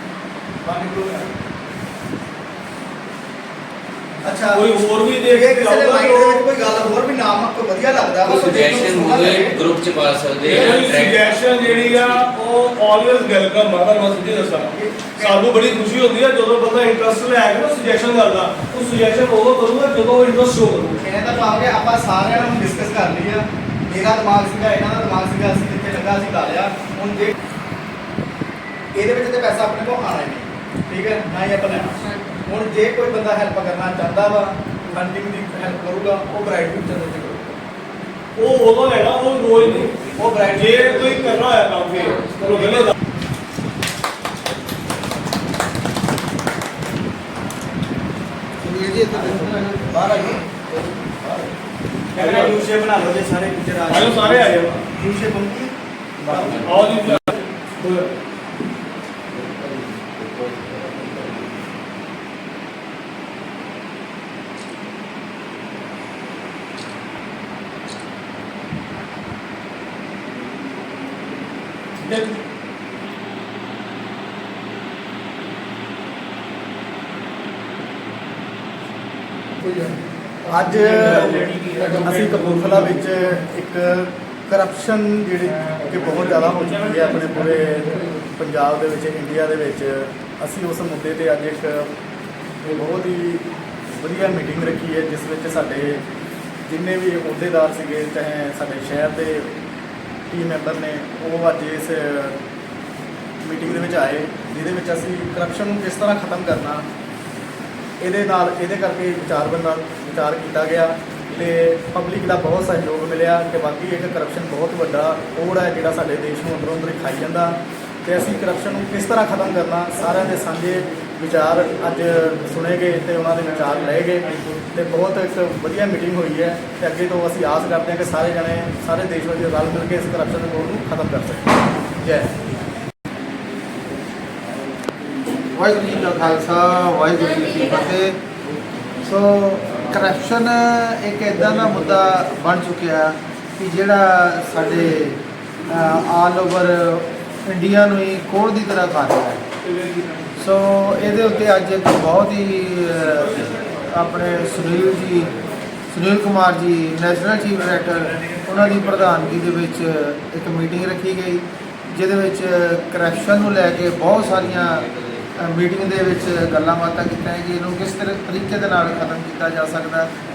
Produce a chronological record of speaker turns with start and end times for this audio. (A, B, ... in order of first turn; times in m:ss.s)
0:00.6-0:01.3 A
0:04.2-0:09.6 A
0:04.5-0:06.4 B
0:08.2-0:12.0 C
0:10.4-0:21.0 B
0:14.6-0:15.6 A
0:21.0-0:27.3 A
0:28.9-0:37.6 A
0:38.4-0:42.9 B
0:39.8-0:41.4 A
0:42.4-0:42.8 A
0:48.6-0:50.0 D
0:49.1-0:51.5 A
0:52.1-0:56.9 A
0:52.1-0:52.6 B
0:53.9-0:54.8 B
0:56.3-0:58.2 B
0:56.4-0:57.2 C
0:59.6-1:01.3 C
1:12.0-1:12.3 B
1:20.5-1:31.9 A
1:20.8-1:23.0 B
1:26.0-1:27.3 B
1:32.6-1:36.0 A
1:36.7-1:39.5 A
1:40.3-1:42.4 A
1:43.4-1:46.8 A
1:48.0-2:12.3 A
2:15.5-2:18.2 D
2:19.0-2:29.4 D
2:29.8-2:30.2 B
2:30.4-2:35.3 D
2:33.3-2:33.6 B
2:35.9-2:50.1 D